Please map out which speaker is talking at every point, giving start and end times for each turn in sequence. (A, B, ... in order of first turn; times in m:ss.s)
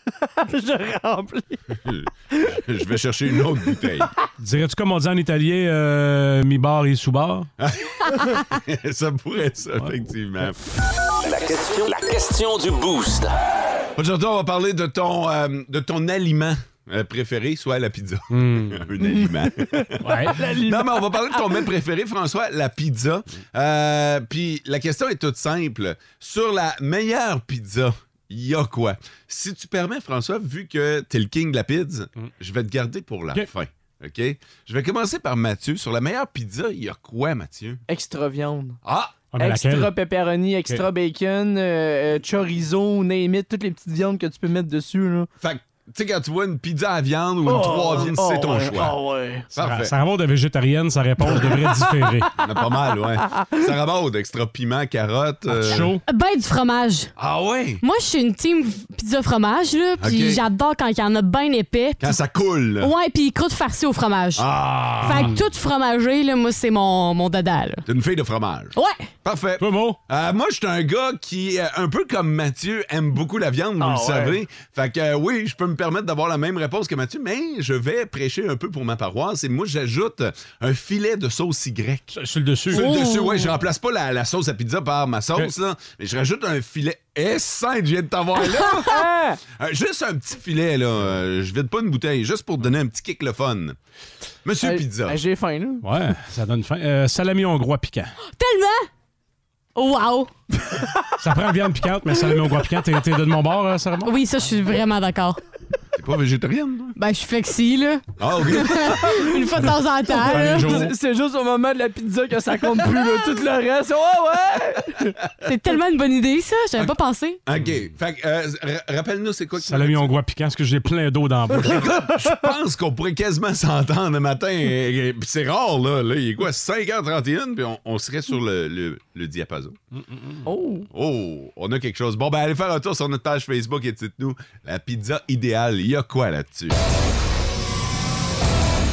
0:00.2-0:01.6 A
0:01.8-0:04.1 B
0:04.4-0:07.5 C
0:07.6-0:10.6 B
0:11.2-0:13.4 D
0:14.0-0:37.8 B
0:18.3-0:18.9 C
0:19.0-0:21.6 A
0:20.0-0:20.4 C
0:37.9-0:38.8 A
0:38.8-0:39.2 B
0:39.3-0:39.9 C
0:39.4-0:45.3 A
0:45.4-0:49.0 B
0:47.4-0:49.5 A
0:49.5-0:49.9 B
0:49.6-0:52.3 C
0:52.3-0:56.0 B
0:55.5-0:56.0 C
0:56.0-0:57.1 E
0:57.2-0:57.8 B
0:57.8-1:02.2 E
1:00.0-1:00.4 B
1:02.0-1:02.9 B
1:02.8-1:04.5 E
1:04.4-1:05.4 B
1:05.0-1:07.8 E
1:05.1-1:05.4 C
1:07.9-1:22.1 B
1:08.8-1:09.1 E
1:09.6-1:10.0 C
1:13.8-1:14.4 A
1:22.1-1:23.0 C
1:22.7-1:29.0 B
1:22.7-1:23.5 A
1:28.9-1:29.4 A
1:29.5-1:33.8 B
1:34.4-1:35.2 B
1:34.6-1:35.8 A
1:35.8-1:38.2 C
1:38.3-1:38.9 E
1:39.8-1:40.3 E
1:41.2-1:44.2 C
1:44.0-1:45.4 E
1:46.0-1:47.0 B
1:47.0-1:50.8 E
1:48.2-1:49.3 B
1:50.1-1:50.9 C
1:50.3-1:55.1 A
1:55.4-1:57.4 E
1:56.8-2:00.2 B
1:59.6-2:01.9 C
2:01.6-2:09.8 B
2:10.0-2:10.4 C
2:10.5-2:10.9 A
2:10.9-2:16.8 B